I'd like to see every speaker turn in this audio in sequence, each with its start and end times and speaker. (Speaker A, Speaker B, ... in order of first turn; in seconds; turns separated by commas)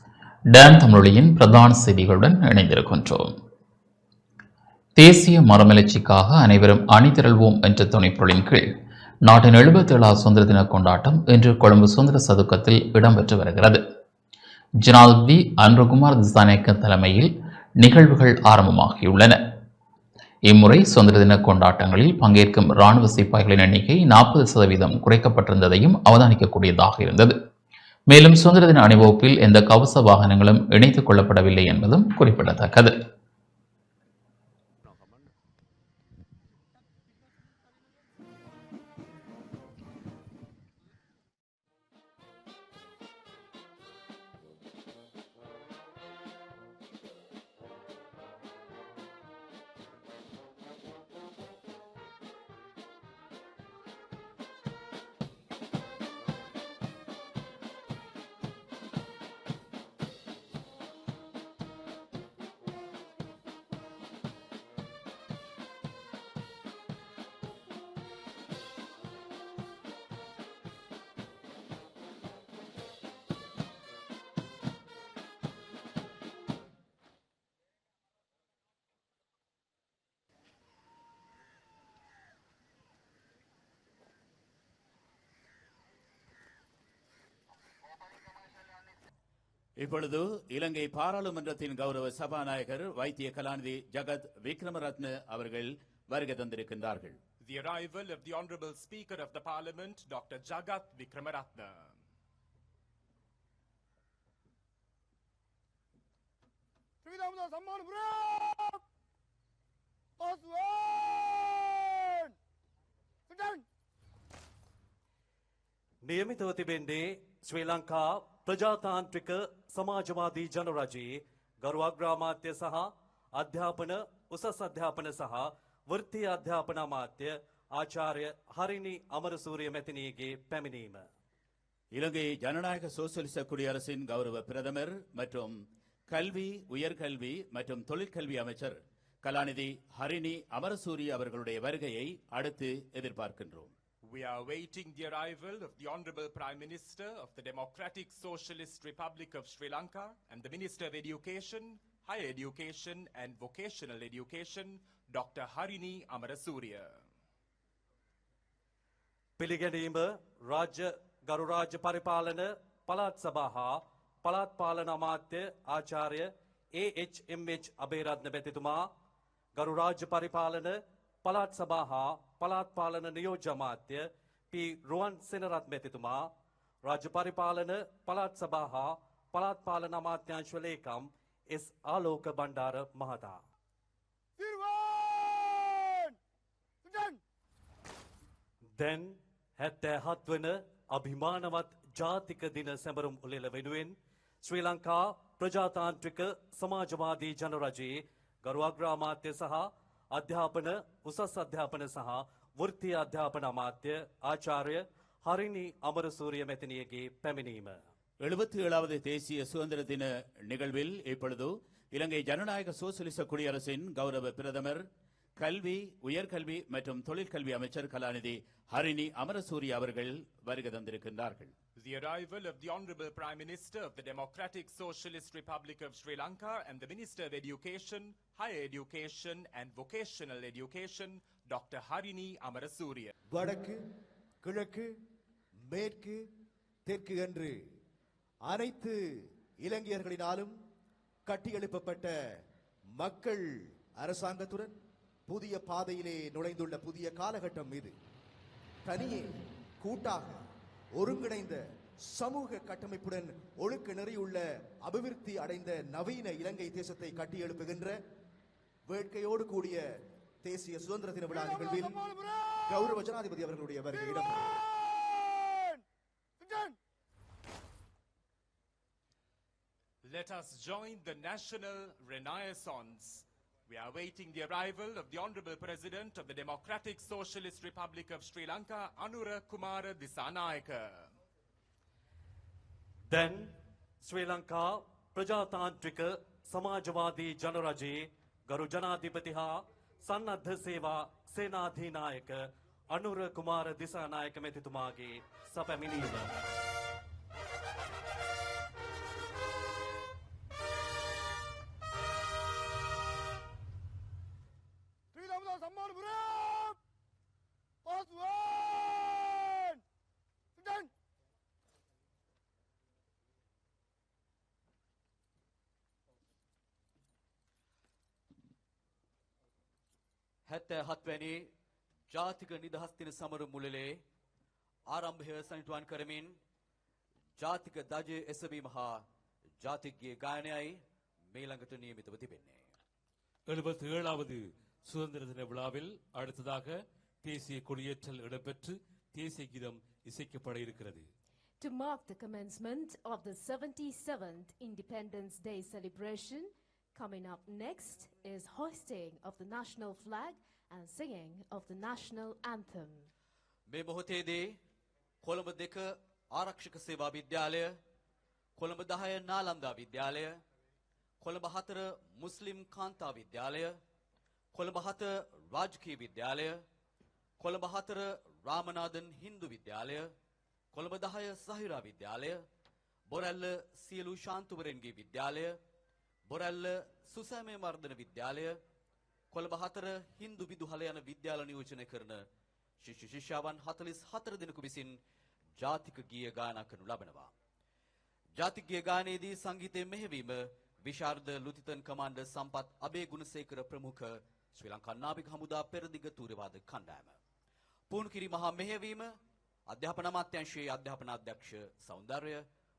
Speaker A: 0.5-3.3, Speaker A: 5.0-8.7, Speaker A: 9.2-13.8, Speaker A: 14.8-19.4, Speaker A: 20.5-27.3, Speaker A: 28.1-32.9, Speaker B: 89.8-97.2, Speaker C: 97.4-102.0, Speaker D: 107.0-108.8, Speaker D: 110.2-112.3, Speaker D: 113.3-113.6, Speaker E: 116.0-131.1, Speaker B: 131.9-143.7, Speaker C: 144.0-157.0, Speaker E: 159.4-168.9, Speaker E: 169.6-176.3, Speaker E: 176.8-183.4, Speaker D: 184.4-186.1, Speaker D: 186.8-187.2, Speaker E: 188.8-207.8, Speaker B: 208.2-221.5, Speaker C: 221.8-233.1, Speaker F: 233.3-233.8, Speaker F: 234.4-234.9, Speaker F: 235.7-236.2, Speaker F: 236.8-237.6, Speaker F: 238.5-239.0, Speaker F: 239.6-240.5, Speaker F: 241.3-242.1, Speaker F: 243.0-244.8, Speaker F: 245.3-247.9, Speaker F: 248.8-250.4, Speaker F: 250.9-251.6, Speaker F: 252.1-258.0, Speaker F: 258.9-259.8, Speaker F: 260.4-262.1, Speaker D: 261.5-262.5, Speaker F: 262.7-264.6, Speaker D: 264.8-265.8, Speaker D: 266.4-266.8, Speaker C: 270.0-281.1, Speaker E: 283.1-283.5, Speaker E: 284.0-296.3, Speaker D: 305.1-306.8, Speaker D: 307.9-309.8, Speaker D: 310.6-310.9, Speaker G: 320.5-321.5, Speaker G: 322.1-324.0, Speaker G: 324.9-326.4, Speaker G: 327.4-329.0, Speaker G: 329.6-330.8, Speaker G: 331.3-332.6, Speaker H: 333.5-341.1, Speaker I: 341.6-353.1, Speaker H: 344.9-345.2, Speaker G: 353.7-354.6, Speaker G: 355.2-357.8, Speaker G: 358.6-360.4, Speaker G: 361.2-363.8, Speaker G: 364.5-366.6, Speaker G: 367.4-370.1, Speaker G: 370.7-372.4, Speaker G: 373.1-375.6, Speaker G: 376.3-378.6, Speaker G: 379.3-382.2, Speaker G: 382.8-385.0, Speaker G: 385.6-387.3, Speaker G: 388.4-397.2, Speaker G: 397.9-399.2, Speaker G: 399.7-402.4